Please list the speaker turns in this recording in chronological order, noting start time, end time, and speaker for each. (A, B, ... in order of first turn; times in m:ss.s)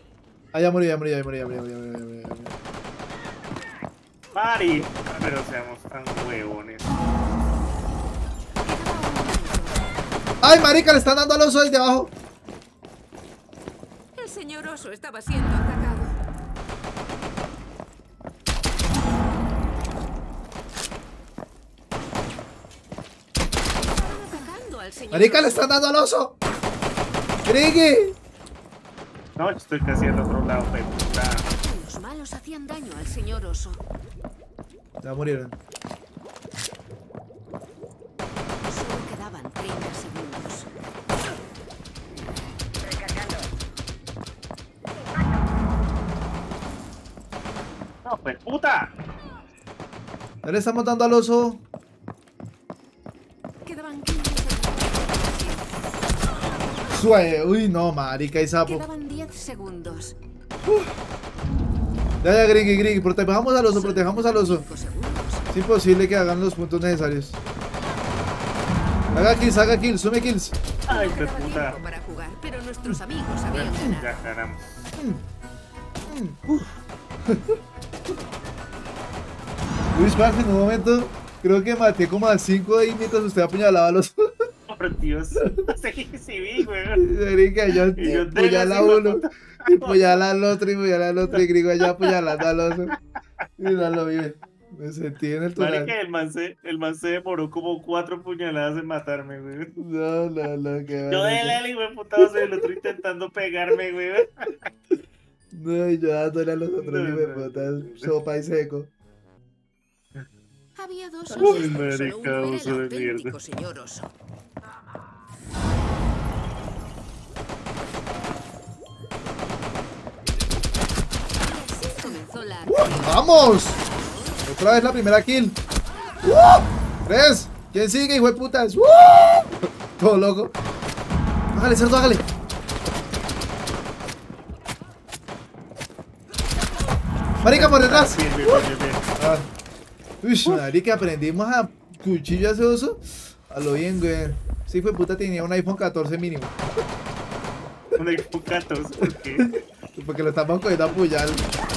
0:00.5-0:02.6 A
0:04.3-0:06.8 B
0:08.6-0:09.8 C
0:10.4-0:12.1 A
0:14.2-0:16.2 C
0:23.8-0:25.7 C
0:25.1-0:26.4 A
0:27.4-0:28.2 A
0:29.4-0:31.5 B
0:31.5-0:33.8 C
0:35.0-0:35.6 A
0:38.6-0:40.7 C
0:48.0-0:48.9 B
0:50.4-0:51.6 A
0:53.6-0:55.7 C
0:56.9-0:58.9 A
0:58.7-1:00.2 C
1:00.6-1:00.9 A
1:02.2-1:04.6 A
1:03.7-1:05.5 C
1:05.5-1:07.4 A
1:09.1-1:10.6 A
1:10.9-1:11.8 B
1:10.9-1:14.1 C
1:13.5-1:14.6 B
1:15.0-1:15.2 A
1:16.1-1:16.4 A
1:16.5-1:16.8 B
1:17.3-1:17.6 A
1:19.9-1:24.4 A
1:24.7-1:27.0 B
1:25.4-1:25.6 A
1:27.0-1:33.0 A
1:28.0-1:30.2 B
1:31.3-1:32.5 B
1:33.6-1:35.9 A
1:35.6-1:39.8 B
1:39.8-1:41.6 A
1:41.1-1:44.5 B
1:42.2-1:42.8 A
1:45.5-1:48.9 A
1:46.8-1:48.1 B
1:50.8-1:54.1 C
1:51.3-1:53.3 B
2:01.4-2:04.7 C
2:02.7-2:03.8 A
2:04.5-2:05.6 A
2:06.2-2:10.5 A
2:11.5-2:12.2 A
2:17.4-2:18.7 A
2:17.4-2:19.1 B
2:19.2-2:19.5 A
2:20.2-2:26.6 A
2:28.0-2:29.5 B
2:29.4-2:31.5 A